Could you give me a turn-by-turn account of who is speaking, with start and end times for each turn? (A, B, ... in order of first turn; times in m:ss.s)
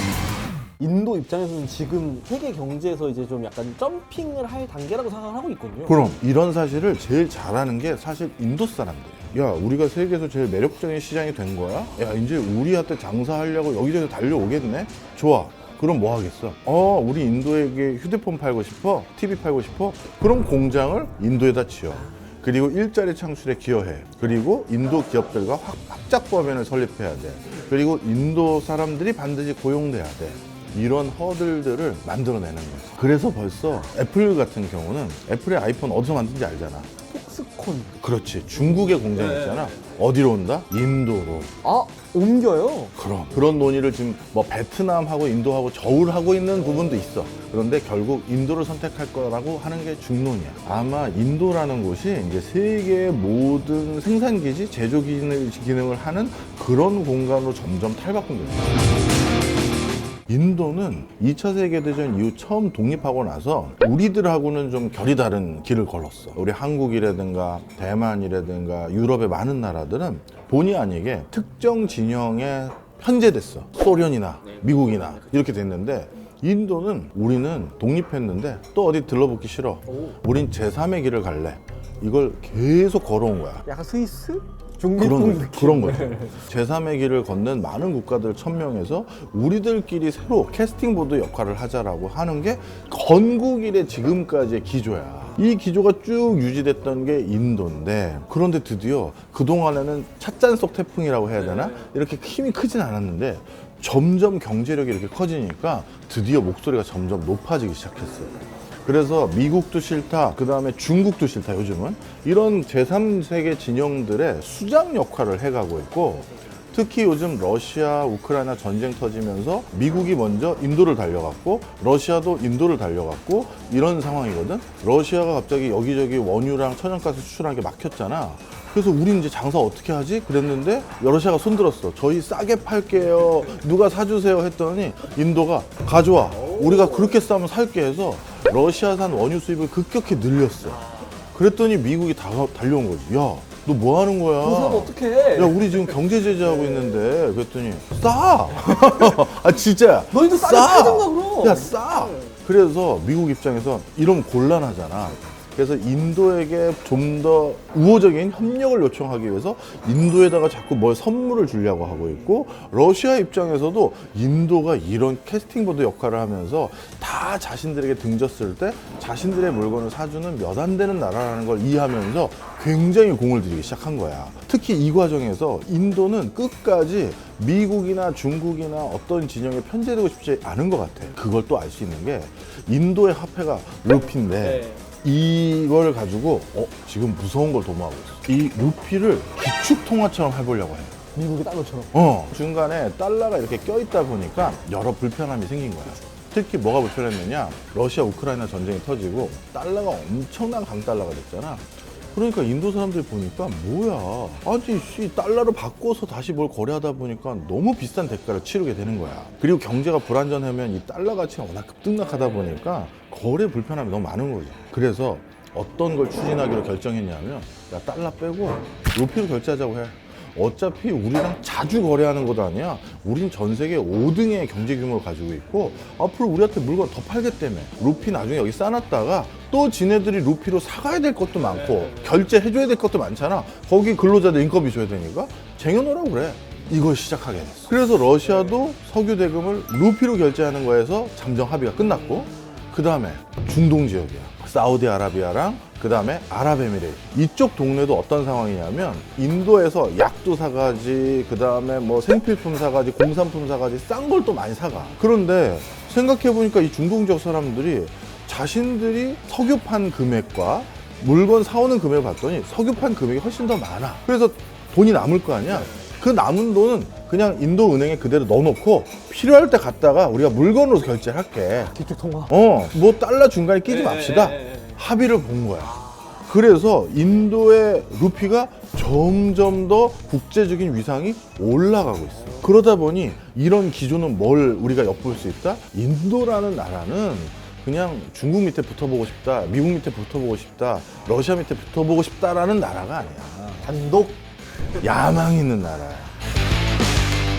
0:00.8-0:06.0 A
0:05.9-0:36.9 B
0:37.1-0:38.0 A
0:38.0-0:41.5 B
0:41.6-0:42.9 A
0:43.0-0:58.7 B
1:00.3-1:23.6 B
1:23.6-1:26.4 A
1:25.0-3:11.0 B
2:16.3-2:17.2 A
2:24.4-2:27.0 A
2:30.1-2:31.7 A
3:11.1-3:11.9 A
3:11.9-4:31.7 B
4:31.7-4:32.3 A
4:32.3-4:53.7 B
4:53.6-4:54.2 A
4:54.8-4:56.1 B